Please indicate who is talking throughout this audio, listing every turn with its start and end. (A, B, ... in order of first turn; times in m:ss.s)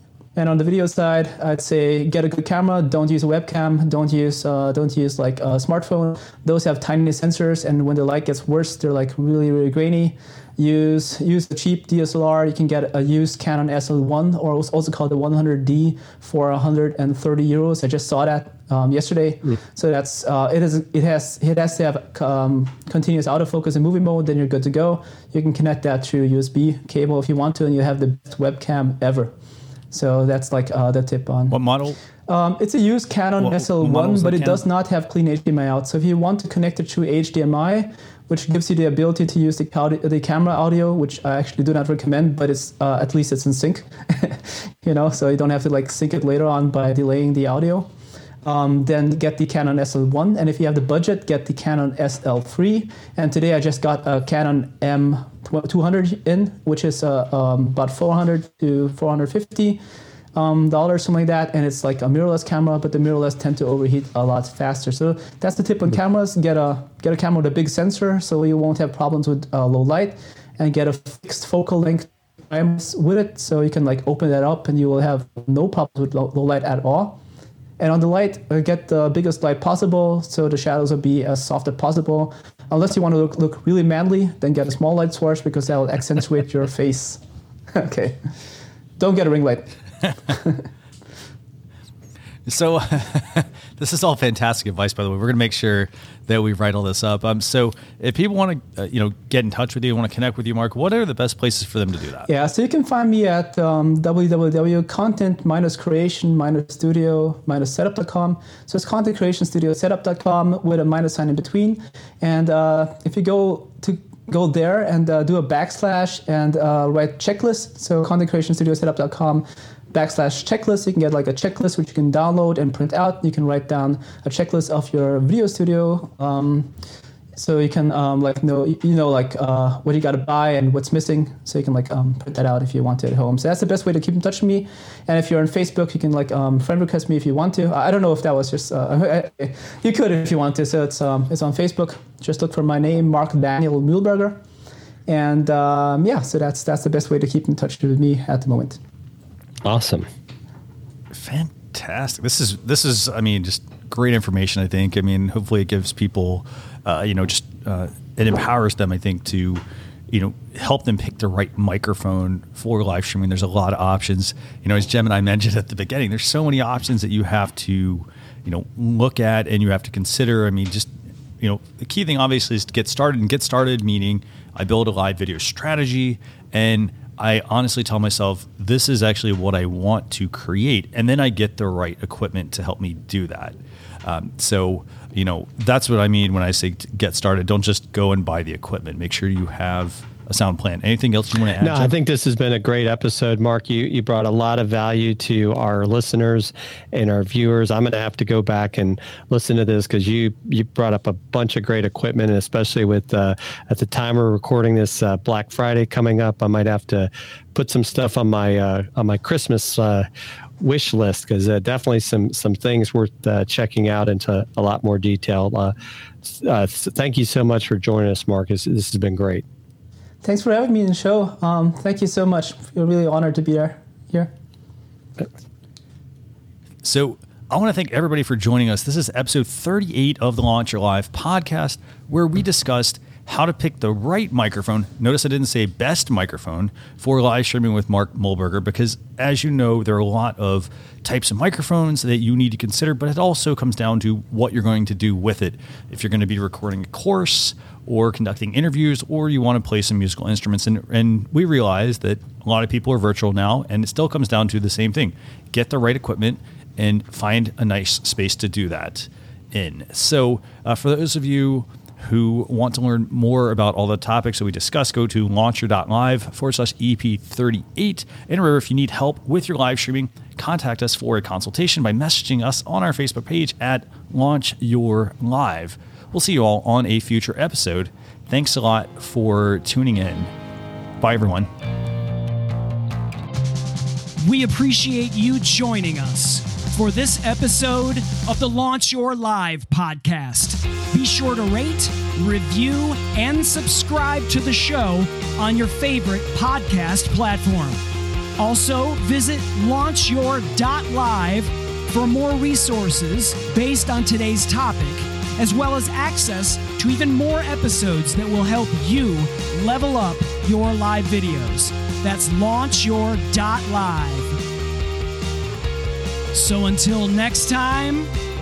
0:00.4-0:29.3 A
0:29.9-0:31.6 A
0:31.5-0:32.0 B
0:32.3-0:47.9 A
0:33.4-0:34.6 B
0:48.4-0:59.8 A
1:00.3-1:17.2 A
1:17.8-1:27.2 A
1:27.7-1:28.2 A
1:29.0-1:30.6 A
1:32.4-1:42.3 B
1:42.3-2:06.7 A
2:07.3-2:24.4 A
2:25.1-2:28.8 A
2:29.6-2:30.1 C
2:31.1-3:11.9 B
3:11.6-3:30.1 C
3:30.6-3:39.4 C
3:40.2-3:44.3 A
3:46.8-4:40.3 B
4:41.0-4:41.5 B
4:44.2-4:57.8 D
4:58.4-5:14.4 D
5:16.3-5:18.1 D